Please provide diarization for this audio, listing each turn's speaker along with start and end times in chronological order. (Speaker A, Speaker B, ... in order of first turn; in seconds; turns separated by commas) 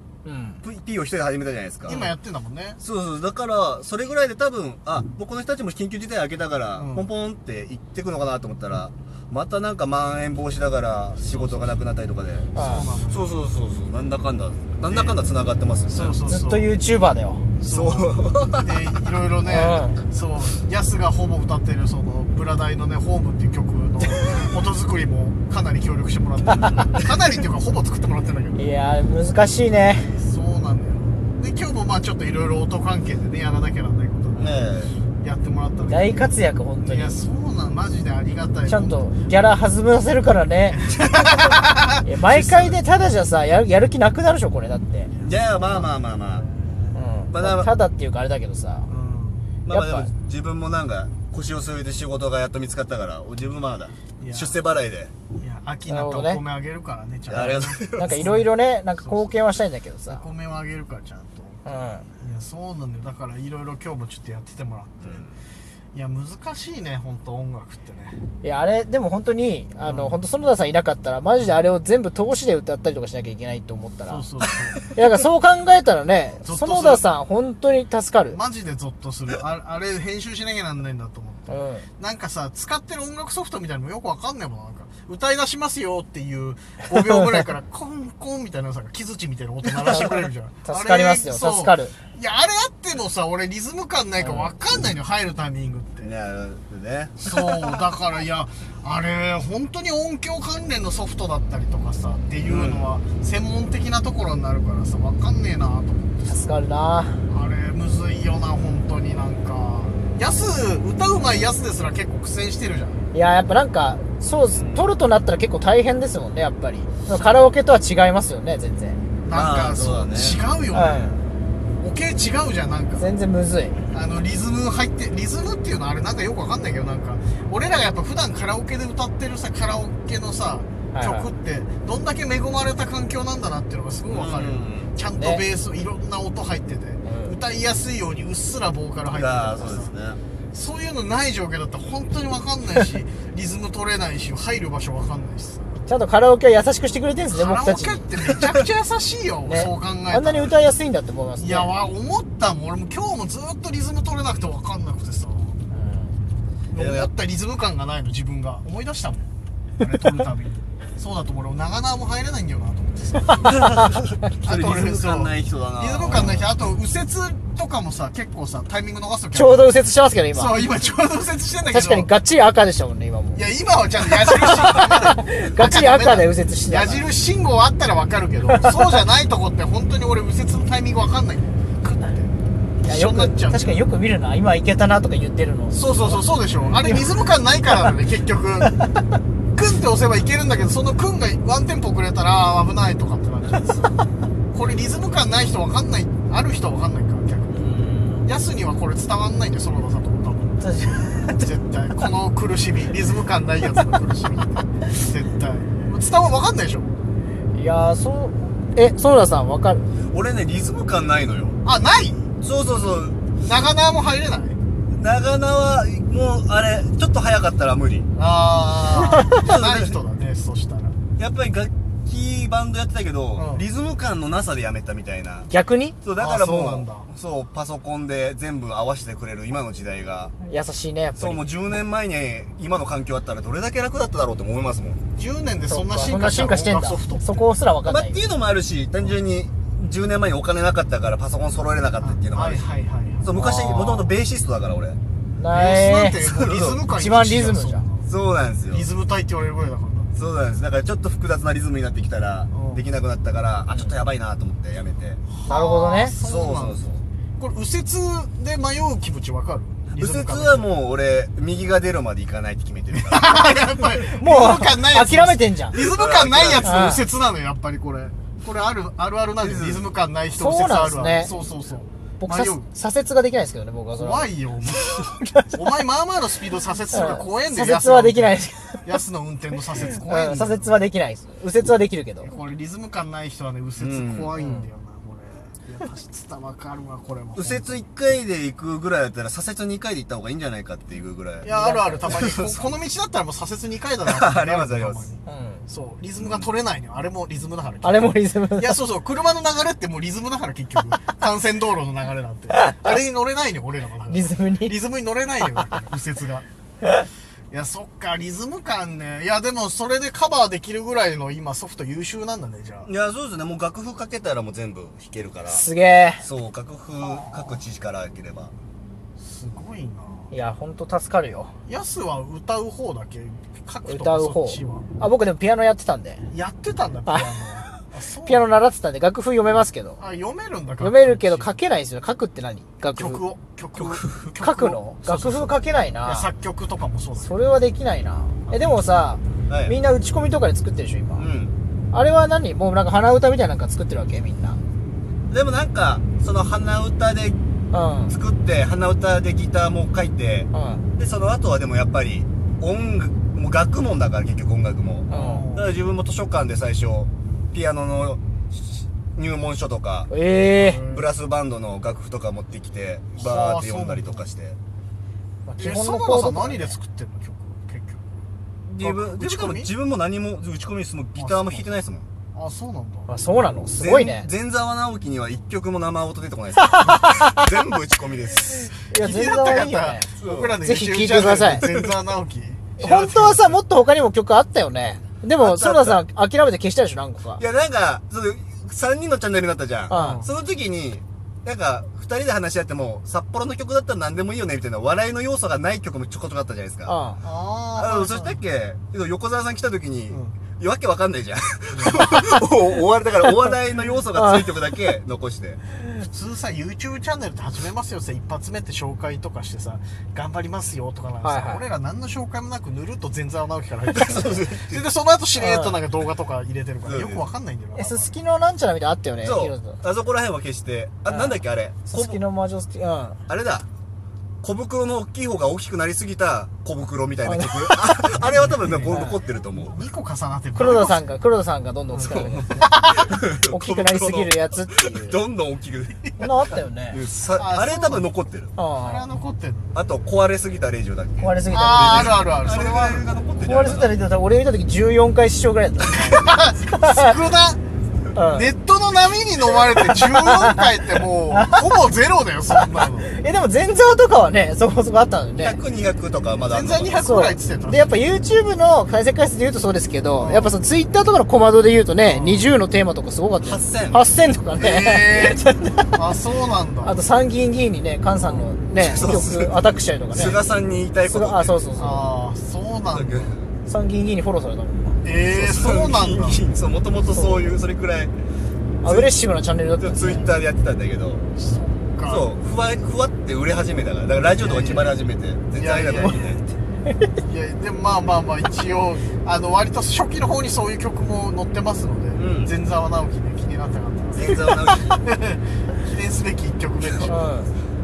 Speaker A: 0.2-0.6, Speaker B: 0.6-2.1, Speaker C: 1.8-2.8, Speaker B: 2.8-12.5, Speaker C: 6.8-7.0, Speaker C: 11.2-11.7, Speaker A: 12.5-12.9, Speaker C: 12.5-13.3, Speaker B: 13.1-16.2, Speaker C: 14.9-15.2, Speaker C: 15.9-16.7, Speaker A: 16.2-17.5, Speaker C: 17.6-28.6, Speaker B: 17.7-18.7, Speaker A: 19.4-20.0, Speaker A: 28.5-30.1, Speaker C: 30.1-39.0, Speaker B: 34.4-35.0, Speaker A: 35.9-37.2, Speaker A: 38.7-40.8, Speaker C: 40.7-41.9, Speaker A: 42.0-45.1, Speaker B: 42.3-42.8, Speaker C: 45.1-47.0, Speaker B: 45.2-46.4, Speaker A: 46.9-48.9, Speaker B: 47.3-47.7, Speaker C: 48.9-49.5, Speaker B: 49.7-55.1, Speaker A: 49.7-50.1, Speaker C: 54.2-54.6, Speaker C: 55.3-58.5, Speaker A: 55.9-56.4, Speaker B: 57.3-58.1, Speaker A: 58.0-60.2, Speaker C: 59.0-59.4, Speaker C: 60.1-61.6, Speaker A: 61.6-62.0, Speaker C: 62.2-65.2, Speaker B: 65.0-65.3, Speaker C: 65.9-68.2, Speaker A: 68.4-74.2, Speaker C: 69.8-70.2, Speaker C: 74.1-75.0, Speaker A: 74.9-78.4, Speaker C: 76.4-77.0, Speaker C: 78.3-96.1, Speaker A: 81.5-81.8, Speaker A: 89.8-92.0, Speaker A: 94.2-94.5, Speaker B: 96.0-97.4, Speaker C: 97.2-106.5, Speaker B: 102.4-102.9, Speaker A: 106.3-107.2, Speaker C: 107.3-113.0, Speaker A: 113.1-119.0, Speaker B: 114.5-114.9, Speaker C: 119.2-121.2, Speaker B: 119.3-120.4, Speaker A: 120.7-121.2, Speaker C: 121.8-123.1, Speaker A: 123.0-123.8, Speaker C: 123.9-139.9, Speaker A: 130.9-131.3, Speaker B: 134.1-134.9, Speaker A: 135.2-135.4, Speaker A: 137.0-137.3, Speaker B: 139.1-140.2, Speaker C: 140.5-145.8, Speaker A: 145.8-148.1, Speaker C: 147.3-150.6, Speaker A: 149.4-151.7, Speaker C: 151.4-155.6, Speaker A: 155.7-156.1, Speaker C: 156.7-159.3, Speaker B: 156.8-157.1, Speaker C: 159.8-163.6, Speaker B: 163.5-166.5, Speaker A: 163.6-164.2, Speaker C: 164.4-169.8, Speaker A: 169.3-170.6, Speaker C: 170.3-172.1, Speaker A: 171.7-173.4, Speaker C: 173.3-183.8, Speaker A: 174.2-177.0, Speaker A: 182.8-186.3, Speaker C: 185.7-188.7, Speaker C: 189.6-194.0, Speaker C: 194.5-206.9, Speaker A: 197.5-198.3, Speaker A: 200.6-201.5, Speaker A: 207.5-209.8, Speaker B: 210.1-211.6, Speaker C: 211.6-212.3, Speaker B: 212.4-213.3, Speaker C: 213.4-214.6, Speaker B: 214.9-218.1, Speaker C: 218.1-220.9, Speaker B: 219.3-219.9, Speaker B: 221.2-225.5, Speaker C: 223.4-223.7, Speaker A: 225.5-225.9, Speaker B: 226.0-230.3, Speaker C: 226.2-227.1, Speaker A: 230.4-231.4, Speaker B: 231.2-235.0, Speaker C: 235.2-237.4, Speaker A: 235.7-238.2, Speaker B: 237.8-242.6, Speaker C: 242.0-243.3, Speaker B: 243.2-245.0, Speaker A: 243.4-244.1, Speaker A: 245.4-246.2, Speaker C: 245.5-248.1, Speaker B: 246.2-246.8, Speaker A: 246.8-247.8, Speaker B: 248.1-248.9, Speaker C: 248.7-250.1, Speaker B: 250.2-255.2, Speaker C: 252.5-252.8, Speaker C: 255.3-256.8, Speaker A: 255.4-256.1, Speaker B: 256.2-257.0, Speaker C: 257.4-260.7, Speaker B: 260.0-263.4, Speaker C: 263.1-272.7, Speaker A: 264.1-265.8, Speaker B: 265.7-266.7, Speaker A: 266.6-267.0, Speaker B: 269.4-269.8, Speaker A: 270.3-271.3, Speaker A: 272.2-274.3, Speaker C: 273.9-280.8, Speaker A: 275.0-275.6, Speaker A: 276.9-278.8, Speaker A: 280.0-282.3, Speaker C: 282.2-287.8, Speaker B: 283.8-284.3, Speaker A: 284.4-284.7, Speaker B: 287.4-291.5, Speaker C: 291.4-306.4, Speaker A: 291.5-292.1, Speaker B: 292.1-292.6, Speaker B: 294.1-295.1, Speaker A: 295.2-295.6, Speaker B: 296.2-296.5, Speaker A: 297.8-298.8, Speaker A: 302.5-302.8, Speaker A: 304.1-304.8, Speaker C: 307.5-312.9, Speaker B: 312.8-315.6, Speaker A: 315.5-316.2, Speaker B: 316.2-318.5, Speaker C: 317.0-317.6, Speaker C: 319.2-320.3, Speaker A: 320.3-321.5, Speaker C: 321.6-324.9, Speaker A: 323.8-326.3, Speaker C: 326.3-328.5, Speaker A: 328.2-330.0, Speaker C: 330.0-331.5, Speaker A: 330.8-333.2, Speaker C: 332.9-337.3, Speaker B: 333.8-334.1, Speaker A: 334.4-336.3, Speaker A: 337.2-341.3, Speaker C: 338.5-338.8, Speaker B: 339.5-339.8, Speaker B: 341.2-341.5, Speaker A: 341.9-344.6, Speaker B: 345.3-347.4, Speaker A: 347.7-348.1, Speaker B: 348.1-360.1, Speaker A: 350.5-350.8, Speaker A: 355.1-355.5, Speaker C: 355.1-355.7, Speaker A: 360.1-360.8, Speaker C: 360.5-361.1, Speaker B: 360.9-364.6, Speaker C: 363.1-364.2, Speaker A: 365.4-366.8, Speaker C: 365.6-368.1, Speaker B: 368.7-372.1, Speaker C: 368.8-369.7, Speaker C: 371.1-371.7, Speaker C: 372.3-373.1, Speaker A: 373.1-374.3, Speaker B: 373.8-378.7, Speaker A: 376.7-377.4, Speaker C: 378.9-383.6, Speaker A: 378.9-380.1, Speaker B: 380.2-380.6, Speaker A: 380.6-381.7, Speaker B: 381.6-381.9, Speaker A: 382.8-387.4, Speaker B: 385.4-386.0, Speaker B: 387.4-396.9, Speaker A: 389.9-390.2, Speaker C: 389.9-390.3, Speaker A: 396.9-397.2, Speaker C: 397.2-398.4, Speaker B: 397.8-405.6, Speaker C: 400.1-400.4, Speaker C: 401.7-402.1, Speaker A: 404.1-404.5, Speaker C: 406.1-418.2, Speaker A: 411.2-411.6, Speaker B: 413.9-414.8, Speaker A: 415.4-415.8, Speaker B: 416.8-417.3, Speaker A: 417.8-419.8, Speaker B: 419.2-422.2, Speaker A: 421.1-423.2, Speaker B: 423.3-423.7, Speaker B: 424.4-429.8, Speaker A: 427.2-428.2, Speaker C: 428.3-429.0, Speaker A: 428.9-429.2, Speaker C: 429.5-431.0, Speaker A: 430.6-435.2, Speaker B: 432.0-436.1, Speaker A: 436.2-437.0, Speaker B: 436.9-438.5, Speaker C: 437.4-438.1, Speaker A: 438.6-439.1, Speaker C: 438.8-439.8, Speaker B: 439.7-443.9, Speaker A: 441.2-442.2, Speaker C: 441.5-443.2, Speaker A: 443.4-447.1, Speaker C: 446.1-447.6, Speaker A: 448.1-448.5, Speaker C: 448.3-453.1, Speaker A: 449.9-450.6, Speaker A: 451.3-451.7, Speaker A: 452.7-455.6, Speaker B: 455.4-457.0, Speaker C: 456.5-457.9, Speaker A: 457.0-466.0, Speaker C: 460.2-460.6, Speaker C: 462.1-462.5, Speaker B: 463.4-464.0, Speaker C: 464.6-467.0, Speaker A: 466.8-470.4, Speaker C: 468.2-468.6, Speaker B: 468.8-471.6, Speaker C: 470.1-470.4, Speaker A: 471.1-472.1, Speaker C: 471.8-473.4, Speaker B: 472.9-473.4, Speaker A: 473.7-475.0, Speaker C: 475.0-476.4, Speaker B: 475.3-478.1, Speaker A: 477.1-477.6, Speaker A: 478.8-480.3, Speaker B: 478.8-479.1, Speaker B: 479.8-481.3, Speaker C: 481.4-482.3, Speaker B: 482.1-486.4, Speaker C: 484.4-484.9, Speaker C: 485.5-486.4, Speaker C: 487.2-497.2, Speaker B: 492.2-492.5, Speaker B: 494.1-495.0, Speaker A: 497.1-497.5